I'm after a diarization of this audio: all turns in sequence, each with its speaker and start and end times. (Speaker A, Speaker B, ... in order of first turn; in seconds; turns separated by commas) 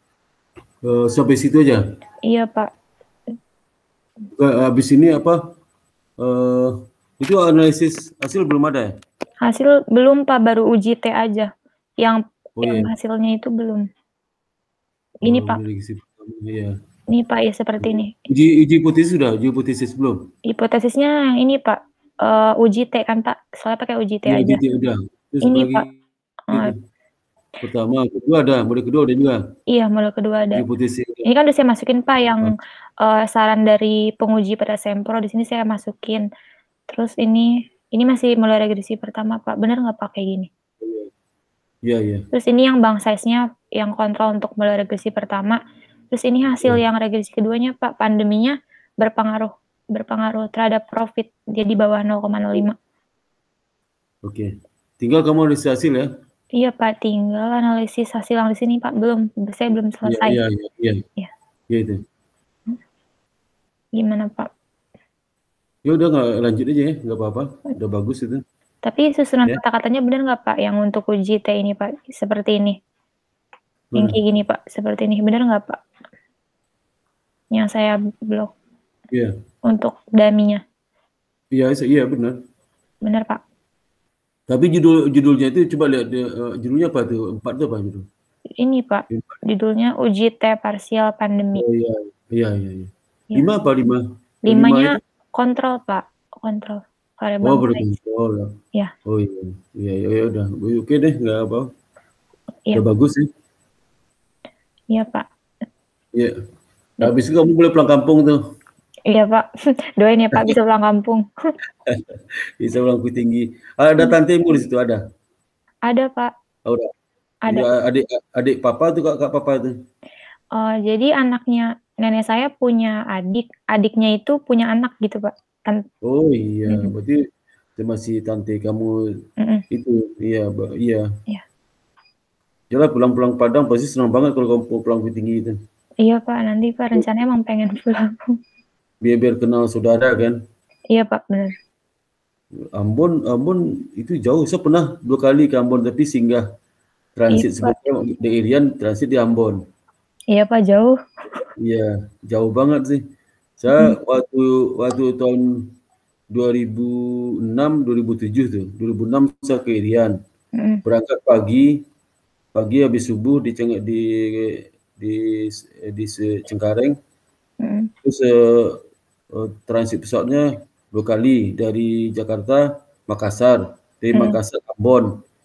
Speaker A: 0.8-1.8, Speaker B: 2.3-2.7, Speaker A: 4.3-5.4, Speaker A: 6.2-8.9, Speaker B: 9.4-11.5, Speaker B: 12.0-13.8, Speaker A: 12.6-12.9, Speaker B: 15.2-15.6, Speaker A: 15.2-16.7, Speaker B: 17.1-18.1, Speaker A: 17.8-20.3, Speaker B: 20.5-24.6, Speaker A: 24.3-25.9, Speaker B: 25.4-25.9, Speaker A: 26.5-26.8, Speaker A: 27.6-29.4, Speaker B: 29.7-30.6, Speaker A: 30.5-31.2, Speaker B: 31.2-36.2, Speaker B: 36.9-40.5, Speaker A: 40.8-41.1, Speaker A: 41.9-42.2, Speaker B: 42.3-45.6, Speaker B: 46.1-52.7, Speaker A: 54.2-56.1, Speaker B: 56.6-60.4, Speaker A: 60.0-61.0, Speaker A: 61.7-62.0, Speaker B: 64.0-64.5, Speaker A: 65.8-68.4, Speaker B: 68.8-72.8, Speaker B: 74.0-75.8, Speaker B: 77.5-78.5, Speaker B: 79.7-80.6, Speaker A: 81.5-82.4, Speaker B: 83.0-83.4, Speaker A: 84.5-88.0, Speaker B: 88.6-91.6, Speaker A: 91.5-95.0, Speaker B: 94.5-97.8, Speaker A: 97.4-98.5, Speaker A: 99.0-101.7, Speaker A: 102.7-103.3, Speaker B: 104.9-105.2, Speaker A: 107.0-108.4, Speaker B: 109.1-109.5, Speaker B: 110.0-111.2, Speaker A: 111.8-115.0, Speaker B: 115.9-116.3, Speaker A: 116.7-116.9, Speaker A: 117.5-119.7, Speaker B: 120.5-125.8, Speaker A: 126.0-127.2, Speaker A: 127.8-128.9, Speaker A: 129.7-131.1, Speaker A: 132.7-135.6, Speaker B: 136.0-138.2, Speaker A: 139.0-140.4, Speaker B: 140.9-141.5, Speaker A: 142.8-146.4, Speaker A: 147.2-149.6, Speaker B: 147.3-147.7, Speaker B: 150.3-151.4, Speaker A: 151.6-153.0, Speaker A: 153.6-155.4, Speaker A: 156.3-160.2, Speaker A: 160.8-161.8, Speaker A: 162.5-166.9, Speaker B: 167.6-167.9, Speaker A: 168.0-168.8, Speaker A: 169.3-175.1, Speaker B: 174.1-174.4